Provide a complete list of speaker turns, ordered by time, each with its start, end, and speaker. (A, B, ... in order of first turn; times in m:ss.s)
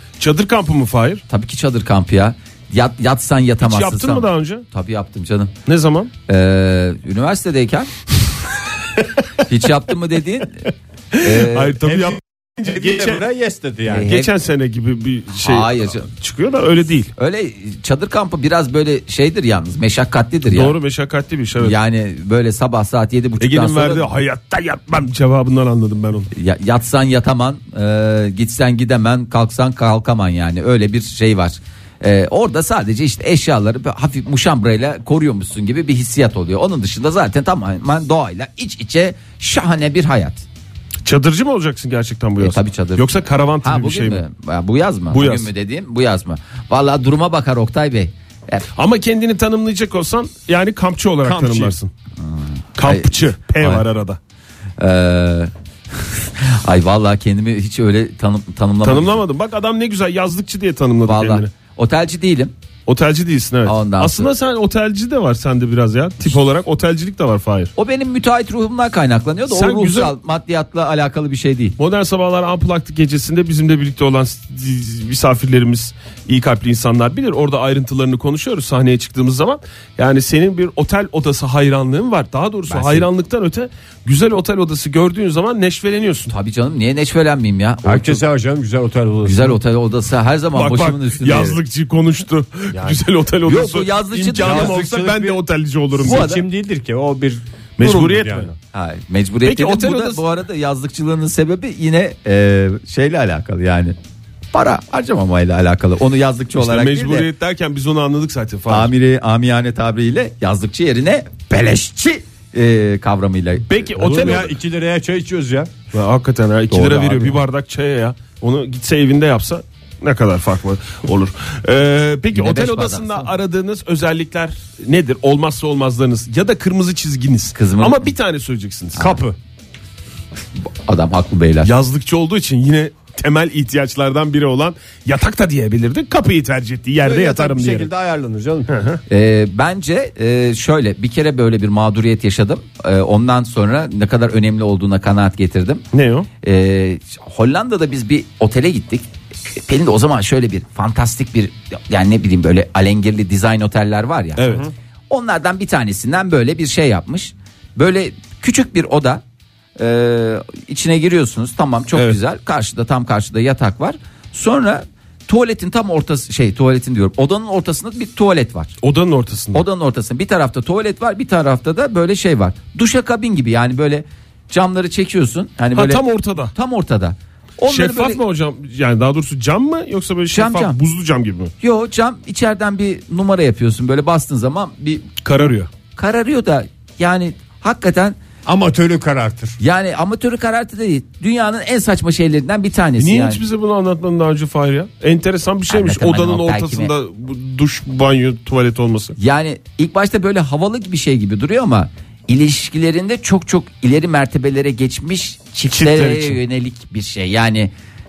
0:00.2-0:01.2 A
0:01.3-0:05.5 B
0:03.6-0:04.6 A
0:05.6-0:06.1 A
0:06.3-0:07.9 B
0:09.4-0:11.8 B
0:11.2-0:13.2 A
0:11.8-0:14.1 C
0:13.9-0:14.3 B
0:14.0-0:17.1 A
0:15.4-0:16.1 B
0:17.2-0:20.8 B
0:20.5-0:21.8 A
0:21.6-0:24.1 B
0:23.4-0:26.3 A
0:26.3-0:40.4 B
0:41.0-0:44.2 A
0:42.4-0:48.6 B
0:45.1-0:45.5 A
0:48.8-0:51.9 A
0:51.2-0:51.8 C
0:52.2-0:53.8 B
0:52.8-0:54.2 A
0:54.8-0:55.5 B
0:56.0-0:59.2 B
0:58.8-1:01.5 A
1:01.0-1:02.5 B
1:02.8-1:07.7 A
1:03.6-1:04.3 B
1:07.8-1:11.8 B
1:09.5-1:10.1 A
1:11.8-1:26.3 A
1:22.7-1:23.1 B
1:26.3-1:28.2 B
1:27.8-1:29.6 C
1:29.2-1:31.6 B
1:30.5-1:36.3 A
1:32.7-1:33.0 C
1:33.4-1:34.8 B
1:34.4-1:35.4 C
1:35.9-1:38.5 C
1:36.0-1:36.4 B
1:37.8-1:38.5 A
1:38.7-1:43.9 B
1:39.4-1:40.2 A
1:44.5-1:47.3 B
1:46.6-1:48.9 A
1:48.7-1:53.9 B
1:53.7-1:54.5 A
1:54.0-1:55.7 C
1:55.9-2:09.1 A
1:56.7-1:57.4 B
2:02.3-2:03.3 B
2:07.5-2:08.1 B
2:09.0-2:09.4 C
2:10.8-2:11.7 B
2:11.6-2:17.9 A
2:17.0-2:18.8 C
2:18.7-2:19.0 A
2:19.1-2:25.8 B
2:25.9-2:26.3 A
2:26.4-2:39.2 B
2:34.4-2:34.7 A
2:39.8-2:48.7 B
2:48.8-2:49.6 A
2:49.5-2:58.2 B
2:55.7-2:56.5 A
2:57.7-3:01.5 A
3:00.3-3:00.8 B
3:01.6-3:05.4 B
3:05.2-3:05.7 A
3:05.9-3:08.2 B
3:08.4-3:09.6 C
3:09.6-3:13.4 B
3:13.0-3:19.2 A
3:15.7-3:16.9 B
3:19.2-3:27.7 B
3:25.7-3:26.4 A